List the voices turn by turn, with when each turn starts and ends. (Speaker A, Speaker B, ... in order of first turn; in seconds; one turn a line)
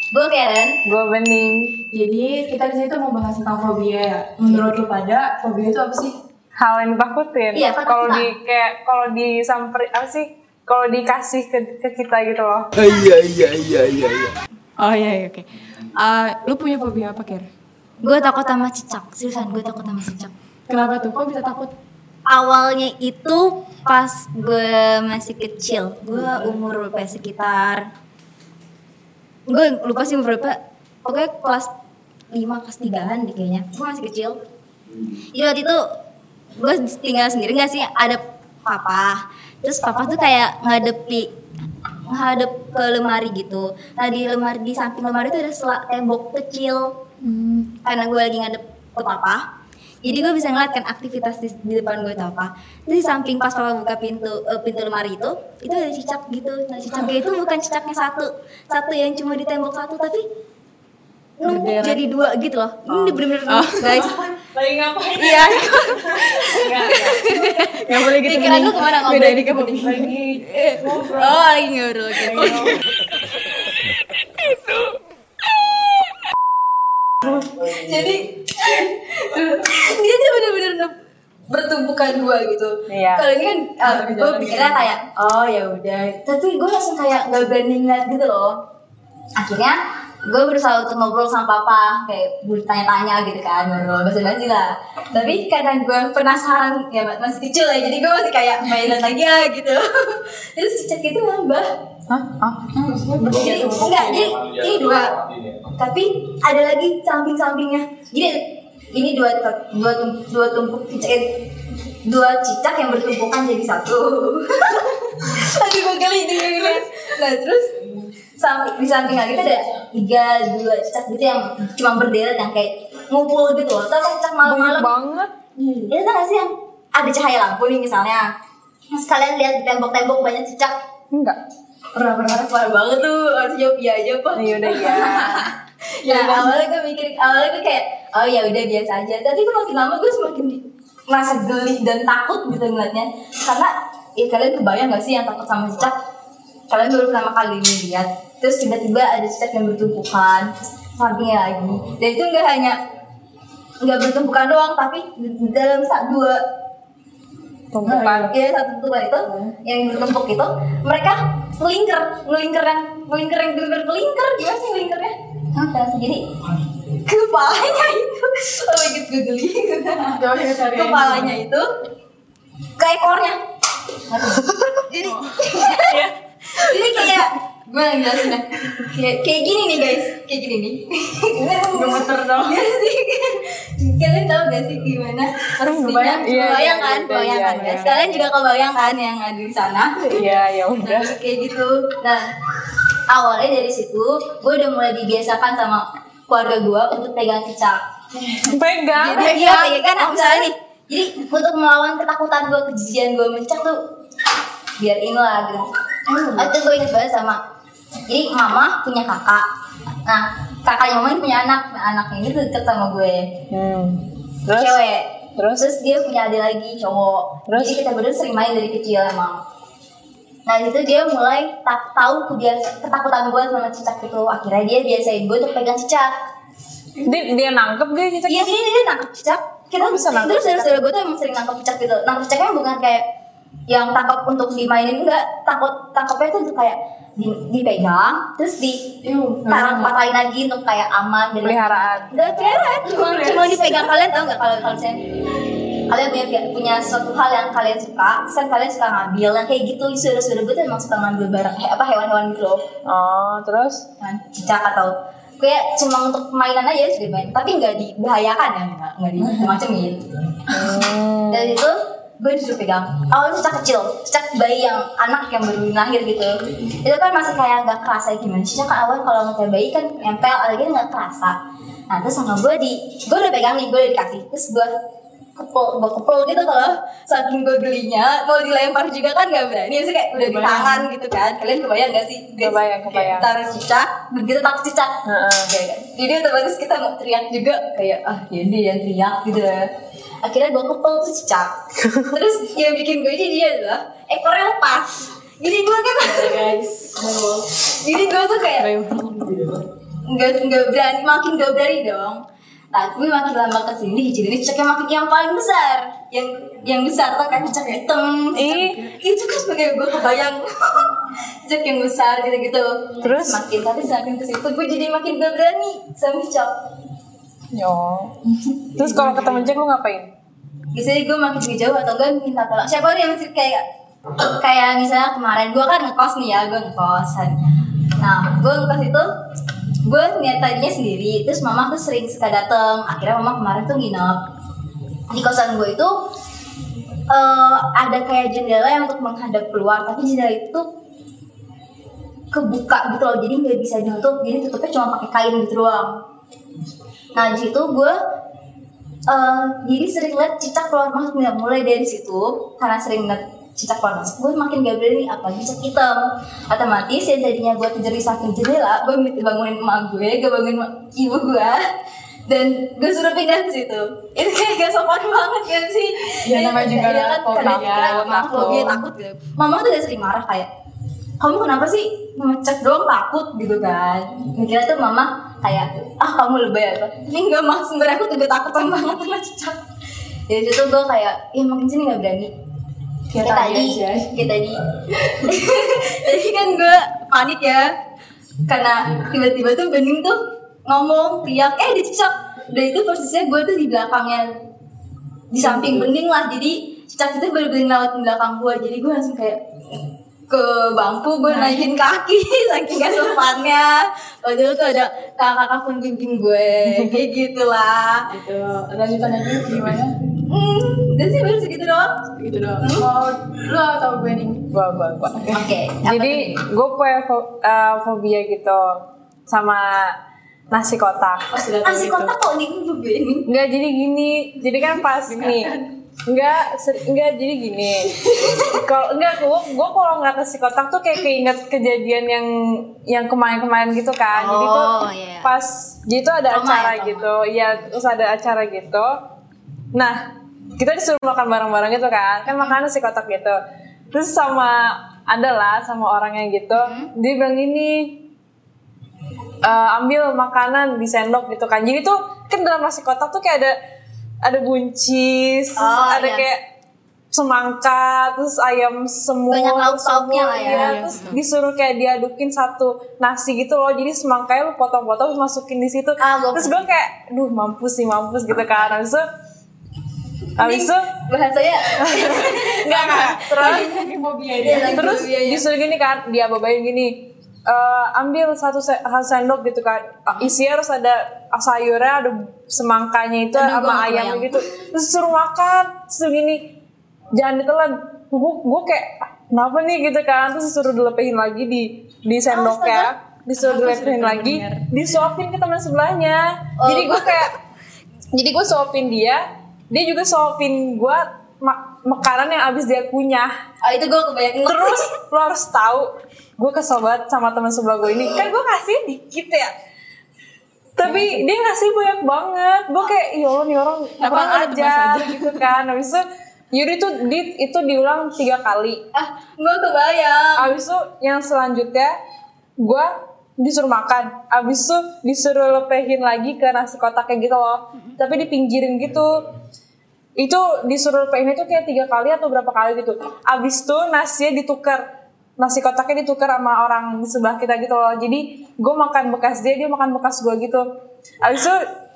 Speaker A: 0.1-0.8
Speaker B: 0.8-1.8
Speaker C: 1.9-6.2
Speaker A: 4.4-4.8
Speaker B: 6.6-12.9
Speaker A: 7.5-8.3
Speaker C: 14.8-17.5
Speaker A: 18.0-20.3
Speaker C: 20.7-21.7
Speaker A: 22.3-27.9
Speaker A: 29.5-31.7
Speaker A: 32.3-34.4
Speaker A: 35.3-35.9
Speaker A: 36.6-41.3
Speaker A: 42.1-49.5
Speaker A: 50.0-60.3
Speaker A: 61.4-64.3
Speaker C: 61.4-62.0
Speaker C: 62.9-64.1
Speaker B: 63.9-67.3
Speaker A: 65.2-69.5
Speaker C: 67.3-70.2
Speaker B: 69.3-71.5
Speaker A: 70.4-72.8
Speaker B: 72.3-72.8
Speaker A: 77.3-81.0
Speaker A: 81.5-88.6
Speaker B: 82.9-83.3
Speaker C: 83.8-84.9
Speaker A: 89.4-101.7
Speaker B: 102.1-102.8
Speaker C: 102.8-104.4
Speaker A: 103.3-117.8
Speaker A: 118.4-124.9
Speaker B: 124.5-125.3
Speaker C: 125.6-125.9
Speaker A: 125.9-128.3
Speaker A: 128.9-130.8
Speaker B: 131.1-131.4
Speaker A: 132.0-146.0
Speaker B: 134.3-135.4
Speaker C: 134.8-135.5
Speaker C: 136.1-136.5
Speaker A: 146.7-152.8
Speaker A: 153.8-156.4
Speaker B: 157.7-158.3
Speaker C: 157.8-158.3
Speaker A: 158.2-166.3
Speaker C: 159.3-159.6
Speaker A: 167.0-171.7
Speaker C: 170.1-171.4
Speaker A: 172.8-173.4
Speaker A: 174.1-190.2
Speaker C: 175.0-175.8
Speaker C: 181.7-182.7
Speaker B: 185.6-188.2
Speaker C: 186.1-186.7
Speaker C: 187.4-188.0
Speaker B: 190.1-191.2
Speaker A: 190.8-192.3
Speaker A: 193.1-197.8
Speaker C: 198.2-198.5
Speaker B: 198.5-199.4
Speaker A: 198.9-203.8
Speaker C: 199.0-200.4
Speaker A: 204.8-205.7
Speaker C: 206.1-206.5
Speaker A: 206.4-207.4
Speaker A: 208.1-209.5
Speaker A: 210.1-213.3
Speaker B: 213.5-214.9
Speaker A: 214.5-219.4
Speaker B: 215.4-215.7
Speaker B: 217.5-217.8
Speaker A: 220.5-226.2
Speaker B: 227.0-228.6
Speaker A: 228.3-233.1
Speaker B: 229.8-230.7
Speaker A: 233.7-238.9
Speaker C: 239.0-240.0
Speaker A: 239.5-245.1
Speaker B: 241.4-242.2
Speaker C: 242.4-243.9
Speaker A: 245.9-252.6
Speaker B: 252.9-253.8
Speaker A: 254.0-271.4
Speaker B: 260.5-261.6
Speaker A: 271.9-274.7
Speaker A: 275.4-289.7
Speaker C: 280.2-280.9
Speaker B: 282.4-283.3
Speaker B: 285.1-285.5
Speaker A: 290.2-296.4
Speaker C: 296.0-297.5
Speaker A: 297.7-298.7
Speaker C: 298.6-299.7
Speaker A: 300.1-316.5
Speaker B: 308.3-308.8
Speaker C: 308.4-309.0
Speaker B: 313.0-313.4
Speaker B: 317.5-318.2
Speaker B: 318.7-320.1
Speaker C: 318.8-319.6
Speaker A: 320.7-323.6
Speaker A: 324.2-327.4
Speaker A: 328.0-329.1
Speaker A: 329.8-334.2
Speaker A: 335.1-336.0
Speaker A: 337.1-340.7
Speaker A: 342.3-346.0
Speaker A: 347.1-348.0
Speaker A: 349.1-361.7
Speaker A: 362.3-370.5
Speaker C: 366.2-368.8
Speaker B: 368.4-368.7
Speaker A: 371.2-379.6
Speaker A: 380.3-382.3
Speaker C: 383.1-384.1
Speaker A: 383.2-387.8
Speaker A: 388.5-394.3
Speaker A: 395.3-408.1
Speaker C: 395.4-395.9
Speaker C: 401.3-401.7
Speaker C: 408.1-410.0
Speaker A: 410.2-412.1
Speaker C: 412.2-414.5
Speaker A: 412.6-412.9
Speaker B: 414.5-420.0
Speaker A: 415.3-416.4
Speaker B: 420.5-421.4
Speaker C: 421.3-422.1
Speaker A: 421.6-423.3
Speaker B: 423.3-425.5
Speaker C: 425.0-425.8
Speaker B: 426.1-439.0
Speaker A: 428.1-428.6
Speaker A: 434.1-435.3
Speaker A: 436.3-437.1
Speaker B: 439.7-440.0
Speaker B: 440.6-443.4
Speaker B: 443.9-448.0
Speaker A: 446.5-446.9
Speaker B: 449.4-453.6
Speaker B: 454.2-456.4
Speaker A: 455.6-456.3
Speaker B: 457.1-469.1
Speaker A: 459.3-461.2
Speaker C: 460.4-461.2
Speaker A: 466.0-466.6
Speaker A: 470.4-473.6
Speaker B: 470.4-470.9
Speaker B: 471.8-473.7
Speaker C: 472.8-475.1
Speaker A: 474.4-475.4
Speaker B: 474.7-476.9
Speaker B: 477.5-486.4
Speaker A: 483.3-484.5
Speaker B: 487.1-497.3
Speaker A: 492.3-492.9
Speaker C: 493.4-494.7
Speaker A: 496.6-497.4
Speaker B: 498.1-503.3
Speaker A: 503.6-504.9
Speaker B: 504.5-509.5
Speaker B: 510.8-518.8
Speaker C: 510.8-511.2
Speaker C: 514.0-515.5
Speaker A: 518.9-520.5
Speaker B: 520.4-521.9
Speaker B: 522.6-529.3
Speaker B: 530.2-534.8
Speaker B: 535.4-540.7
Speaker B: 541.2-541.6